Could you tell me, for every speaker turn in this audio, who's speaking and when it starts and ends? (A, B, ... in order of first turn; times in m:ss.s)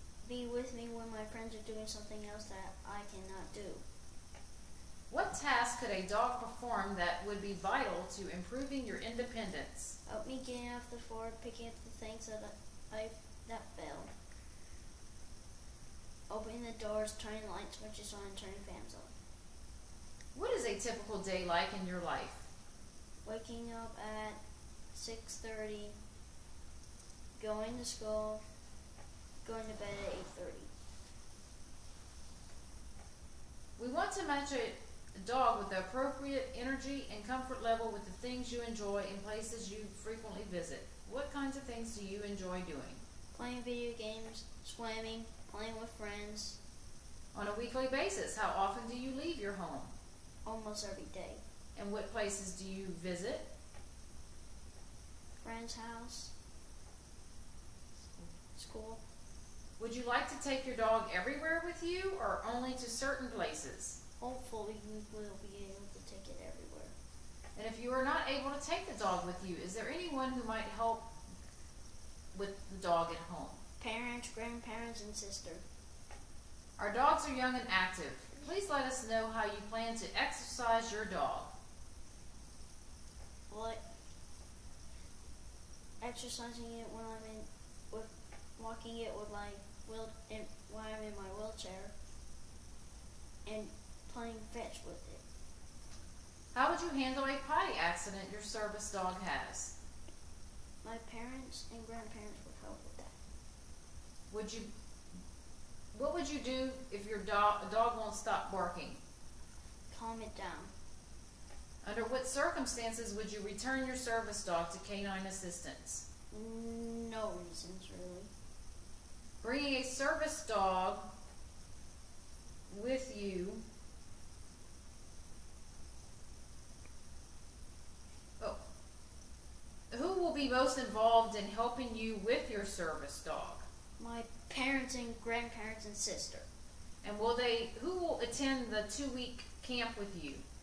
0:00.2-0:03.8 A
0:05.1-0:10.0 B
0:10.1-0:14.1 A
0:16.3-0:19.1 A
0:20.4-0:22.5 B
0:23.2-0:24.4 A
0:24.9-0:26.0 A
0:27.4-0:28.4 A
0:29.4-0:30.7 A
0:33.8-0:43.0 B
0:43.3-0:46.6 A
0:47.3-0:49.9 B
0:50.4-0:51.4 A
0:51.8-0:53.5 B
0:55.4-0:56.3 A
0:58.6-0:59.0 A
0:59.8-1:04.0 B
1:04.2-1:06.9 A
1:07.6-1:11.1 B
1:12.3-1:13.6 B
1:13.8-1:15.6 A
1:16.8-1:21.5 B
1:23.5-1:23.8 A
1:26.0-1:31.9 A
1:33.5-1:35.2 A
1:36.5-1:39.7 B
1:40.8-1:43.1 A
1:44.3-1:44.7 B
1:45.9-1:49.0 B
1:49.9-1:50.7 A
1:51.8-1:56.0 B
1:56.3-1:58.3 A
1:59.4-2:01.1 B
2:02.7-2:03.6 B
2:09.9-2:13.6 B
2:14.0-2:16.5 A
2:17.0-2:20.4 B